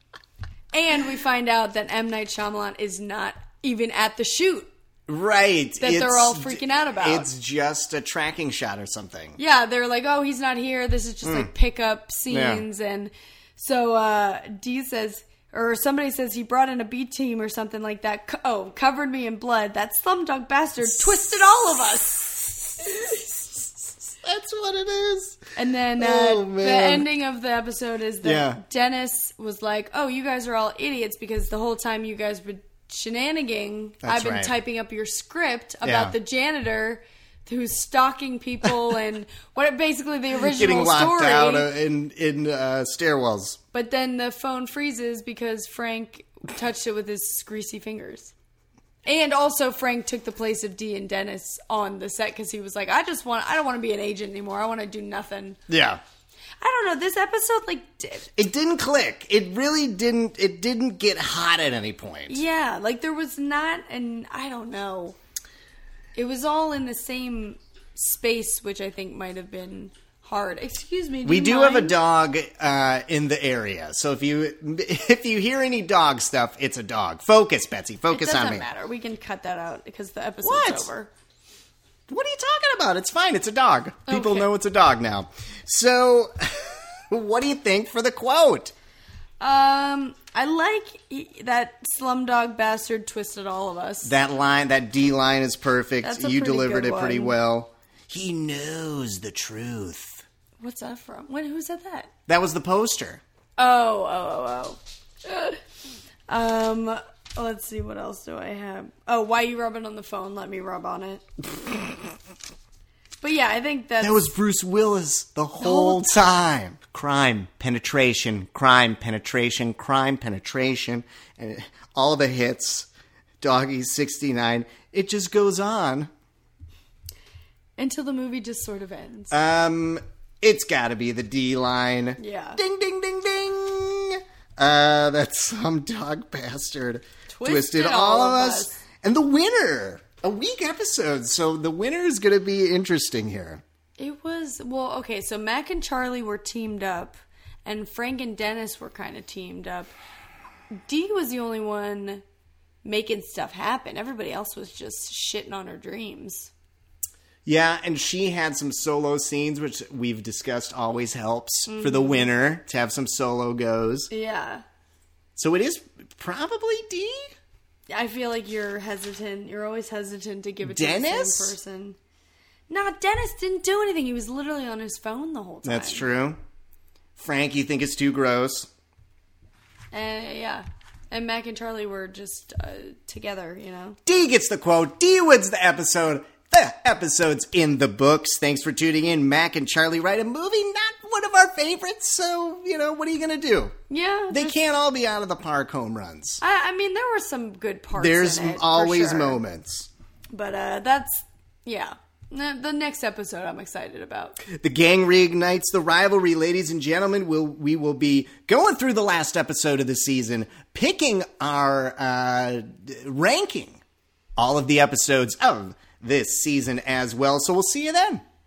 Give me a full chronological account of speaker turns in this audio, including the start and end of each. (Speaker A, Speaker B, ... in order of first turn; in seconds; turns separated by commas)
Speaker A: 0.7-4.7, Speaker B: 5.1-9.4, Speaker A: 5.8-7.3, Speaker A: 9.4-23.6, Speaker B: 11.2-11.5, Speaker B: 12.3-12.6, Speaker B: 20.9-21.4, Speaker B: 24.2-25.4, Speaker A: 25.6-41.7, Speaker B: 26.0-27.1, Speaker B: 28.2-28.6, Speaker B: 34.0-34.6, Speaker B: 35.8-36.1, Speaker B: 40.5-43.6, Speaker A: 43.7-48.3, Speaker A: 49.0-55.6, Speaker B: 55.7-56.0, Speaker A: 56.6-58.3, Speaker B: 58.4-62.4, Speaker A: 62.3-65.2, Speaker A: 66.1-72.0, Speaker B: 71.2-78.7, Speaker A: 78.1-81.1, Speaker B: 80.4-80.9, Speaker B: 82.1-88.7, Speaker A: 84.1-84.5, Speaker A: 89.4-94.1, Speaker B: 94.0-100.2, Speaker A: 96.0-97.4, Speaker A: 100.6-102.1, Speaker B: 102.3-103.2, Speaker A: 103.6-105.6, Speaker A: 106.3-111.2, Speaker A: 113.2-114.2, Speaker B: 114.0-122.9, Speaker A: 115.6-116.3, Speaker B: 123.4-126.1, Speaker A: 127.8-129.3, Speaker B: 129.3-143.6, Speaker A: 132.2-132.6, Speaker A: 137.3-138.8, Speaker A: 144.0-149.9, Speaker A: 150.8-152.2, Speaker A: 152.8-156.5, Speaker B: 157.4-164.1, Speaker A: 161.7-162.3, Speaker A: 164.1-164.6, Speaker B: 165.3-167.2, Speaker A: 167.9-172.0, Speaker B: 170.6-171.5, Speaker A: 172.7-176.1, Speaker B: 175.6-176.4, Speaker B: 177.2-178.7, Speaker A: 179.9-184.0, Speaker B: 184.1-193.7, Speaker A: 193.9-194.6, Speaker B: 194.3-196.4, Speaker A: 196.4-199.4, Speaker B: 197.9-199.9, Speaker A: 200.3-204.4, Speaker B: 204.5-213.8, Speaker B: 214.4-218.2